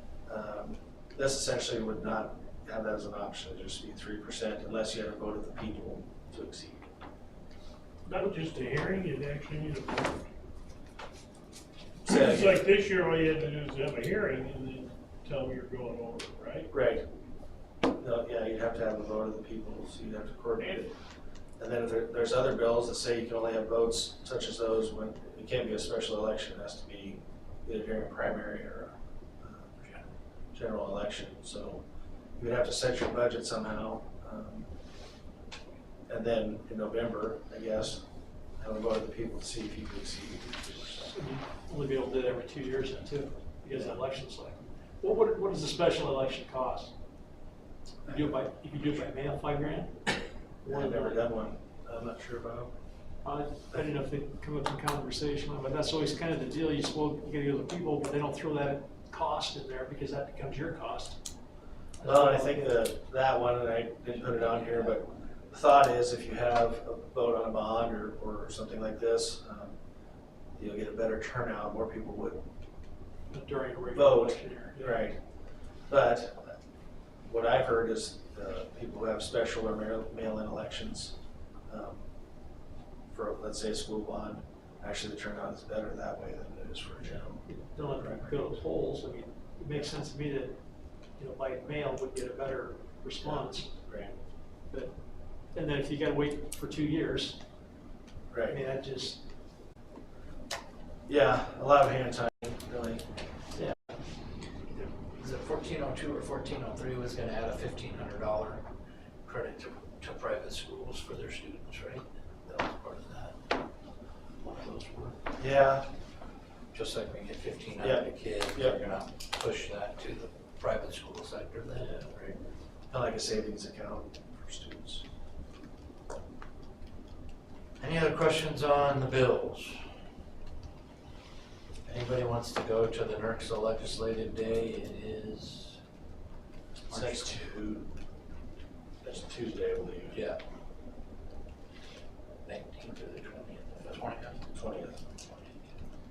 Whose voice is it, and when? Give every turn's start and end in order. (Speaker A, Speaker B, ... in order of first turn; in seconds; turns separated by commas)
Speaker A: 0.3-6.8, Speaker B: 8.1-10.3, Speaker A: 12.0-12.6, Speaker B: 12.1-16.7, Speaker A: 16.7-17.0, Speaker A: 17.9-20.9, Speaker A: 21.6-29.9, Speaker A: 30.5-31.8, Speaker A: 32.4-34.7, Speaker A: 36.1-38.0, Speaker A: 38.6-41.1, Speaker C: 40.8-46.9, Speaker A: 43.7-44.0, Speaker C: 48.0-50.0, Speaker C: 50.6-51.2, Speaker A: 50.7-52.7, Speaker C: 53.2-61.2, Speaker C: 62.0-62.6, Speaker A: 62.0-69.8, Speaker A: 70.5-72.4, Speaker C: 73.3-75.0, Speaker A: 73.9-75.2, Speaker A: 75.9-76.6, Speaker A: 77.2-81.2, Speaker A: 81.7-82.1, Speaker A: 83.1-88.5, Speaker C: 87.0-90.6, Speaker C: 91.2-93.7, Speaker A: 93.2-94.2, Speaker C: 94.7-94.9, Speaker C: 95.5-97.4, Speaker A: 98.3-98.6, Speaker C: 98.5-99.2, Speaker A: 101.1-103.0, Speaker C: 103.5-104.0, Speaker D: 104.7-108.7, Speaker D: 109.2-113.4, Speaker D: 114.4-115.2, Speaker A: 115.4-115.9, Speaker D: 116.7-122.0, Speaker A: 117.8-118.8, Speaker A: 121.9-122.3, Speaker A: 122.9-125.0, Speaker D: 127.8-129.9, Speaker D: 131.8-135.8, Speaker D: 136.8-137.4, Speaker A: 136.9-137.9, Speaker A: 139.0-140.2, Speaker D: 140.1-140.4, Speaker D: 142.4-144.4, Speaker A: 144.5-145.0, Speaker D: 145.2-145.7